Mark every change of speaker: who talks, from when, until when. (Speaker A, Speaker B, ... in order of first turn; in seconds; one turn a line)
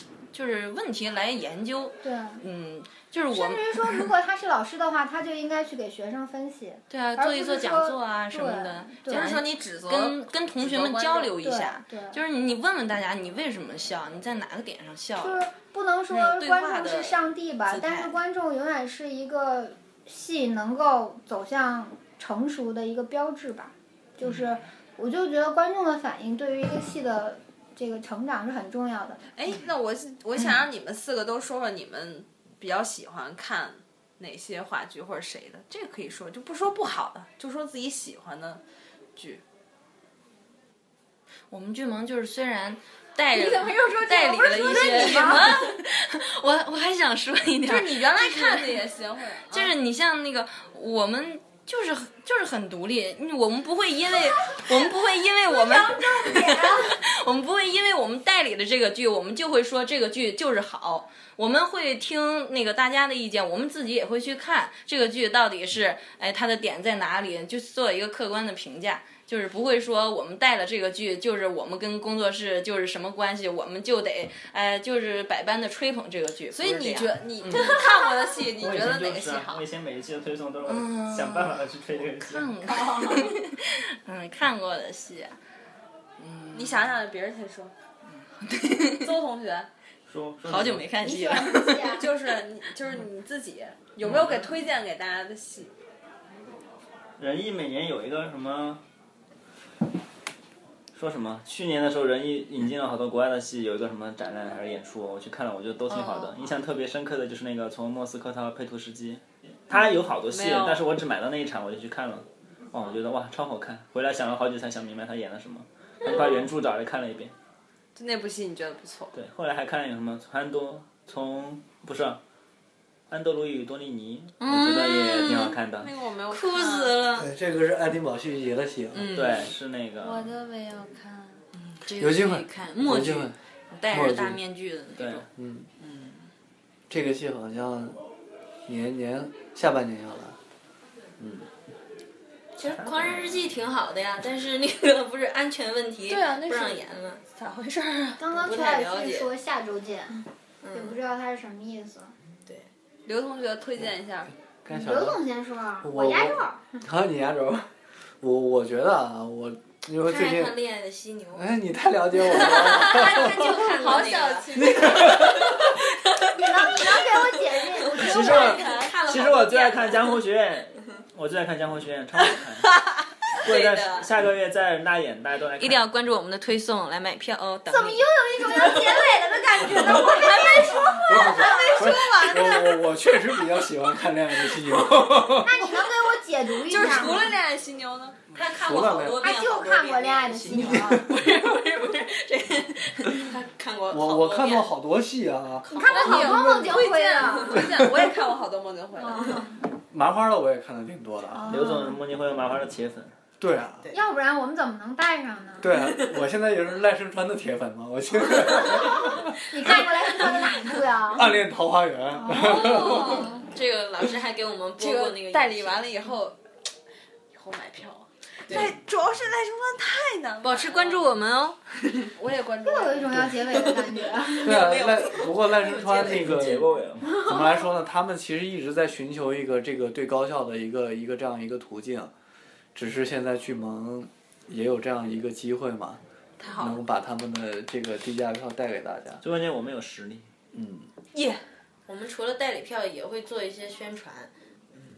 Speaker A: 0.3-4.1
Speaker B: 2.0-2.4
Speaker B: 3.3-9.3
Speaker A: 6.9-15.4
Speaker C: 9.1-11.4
Speaker B: 11.4-12.2
Speaker B: 15.2-29.3
Speaker C: 16.1-17.2
Speaker A: 17.7-18.1
Speaker C: 29.4-38.6
Speaker C: 39.1-39.4
Speaker A: 41.5-48.8
Speaker B: 43.3-45.7
Speaker C: 44.8-45.4
Speaker C: 47.6-49.7
Speaker A: 49.5-77.8
Speaker B: 54.5-54.9
Speaker B: 55.4-57.0
Speaker C: 76.5-79.7
Speaker D: 78.6-82.5
Speaker A: 80.7-81.6
Speaker A: 82.2-85.4
Speaker A: 86.2-86.9
Speaker C: 86.5-87.7
Speaker A: 88.4-89.1
Speaker C: 89.0-89.7
Speaker D: 90.1-90.9
Speaker A: 90.5-92.0
Speaker B: 91.0-92.1
Speaker C: 91.9-95.7
Speaker D: 94.0-94.5
Speaker D: 97.2-98.8
Speaker D: 100.9-117.3
Speaker A: 105.9-106.5
Speaker C: 109.7-110.9
Speaker C: 118.0-119.1
Speaker D: 119.1-122.2
Speaker D: 123.1-125.9
Speaker A: 124.4-125.6
Speaker C: 125.8-127.1
Speaker A: 126.3-127.3
Speaker E: 127.2-129.1
Speaker A: 128.9-129.4
Speaker D: 129.1-130.3
Speaker C: 130.0-131.4
Speaker A: 131.6-135.3
Speaker E: 132.0-133.4
Speaker E: 133.9-134.4
Speaker D: 135.0-135.2
Speaker E: 135.4-135.7
Speaker A: 135.8-136.2
Speaker E: 136.9-138.0
Speaker E: 138.7-140.4
Speaker E: 141.2-141.5
Speaker A: 142.6-147.2
Speaker D: 142.8-143.3
Speaker C: 146.1-148.2
Speaker B: 148.2-152.1
Speaker A: 148.4-149.3
Speaker A: 150.6-150.9
Speaker C: 153.1-154.3
Speaker E: 154.7-155.2
Speaker B: 154.7-156.8
Speaker E: 155.8-157.7
Speaker E: 158.2-160.6
Speaker A: 160.1-161.5
Speaker E: 161.3-163.4
Speaker C: 162.2-165.2
Speaker A: 162.3-165.6
Speaker E: 164.5-165.6
Speaker A: 166.2-167.1
Speaker B: 166.3-168.7
Speaker A: 168.0-170.1
Speaker D: 168.0-172.7
Speaker C: 168.2-168.9
Speaker D: 173.4-175.9
Speaker A: 173.5-174.1
Speaker A: 175.6-178.0
Speaker B: 177.7-181.6
Speaker C: 179.3-182.8
Speaker A: 180.0-180.4
Speaker E: 181.1-185.7
Speaker B: 185.4-187.4
Speaker C: 186.7-188.2
Speaker A: 188.3-194.7
Speaker E: 188.5-189.3
Speaker B: 189.2-191.1
Speaker E: 190.5-190.9
Speaker E: 193.9-195.7
Speaker A: 195.7-196.3
Speaker B: 195.7-197.8
Speaker C: 195.8-199.5
Speaker B: 199.0-199.6
Speaker E: 199.9-201.6
Speaker B: 201.3-202.0
Speaker D: 201.5-203.1
Speaker E: 203.4-203.9
Speaker B: 203.9-205.8
Speaker E: 205.6-209.3
Speaker B: 209.5-211.4
Speaker E: 211.1-213.2
Speaker B: 212.1-213.3
Speaker C: 212.3-213.4
Speaker A: 212.6-215.9
Speaker C: 214.8-216.4
Speaker C: 217.3-221.1
Speaker A: 220.4-222.1
Speaker C: 222.2-223.3
Speaker B: 222.6-224.8
Speaker A: 224.3-226.4
Speaker E: 224.4-232.1
Speaker D: 225.9-227.1
Speaker E: 232.8-236.0
Speaker C: 236.4-236.8
Speaker E: 236.6-239.2
Speaker D: 239.2-240.3
Speaker E: 240.5-240.9
Speaker A: 241.9-244.3